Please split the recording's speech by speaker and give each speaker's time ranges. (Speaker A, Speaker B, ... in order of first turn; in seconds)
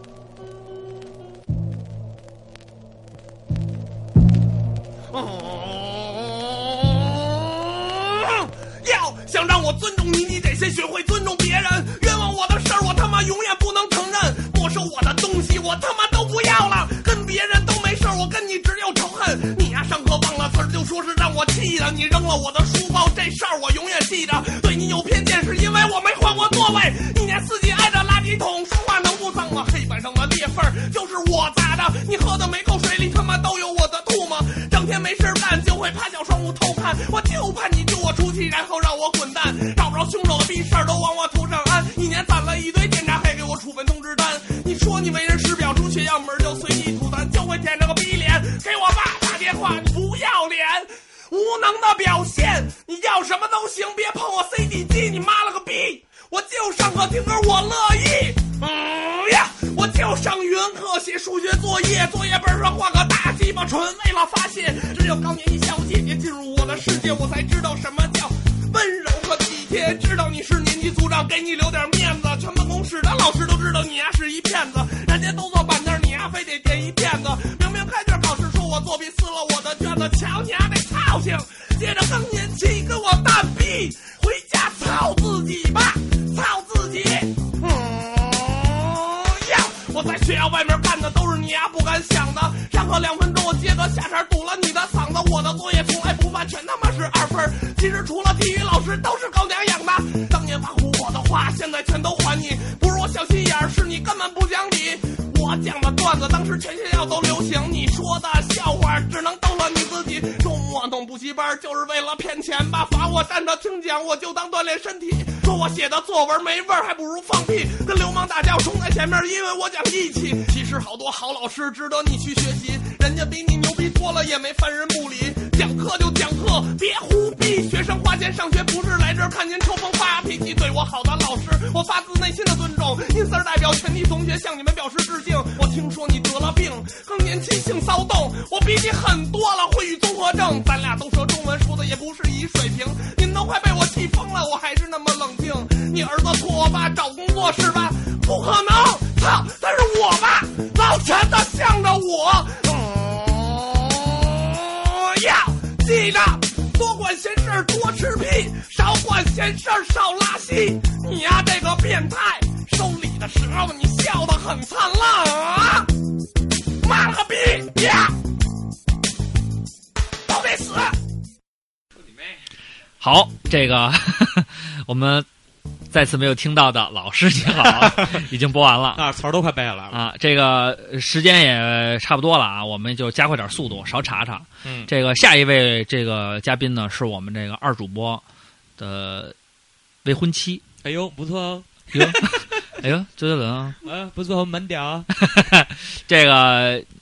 Speaker A: 5.1-165.9, 166.8-168.2, 170.3-171.0
Speaker B: 173.0-175.3, 175.9-179.0, 179.9-188.2, 188.8-189.3, 190.1-190.6, 191.9-192.3, 192.8-193.8, 195.2-196.9
Speaker C: 177.5-178.2, 178.9-180.0, 184.6-184.9, 190.8-192.2, 193.8-195.1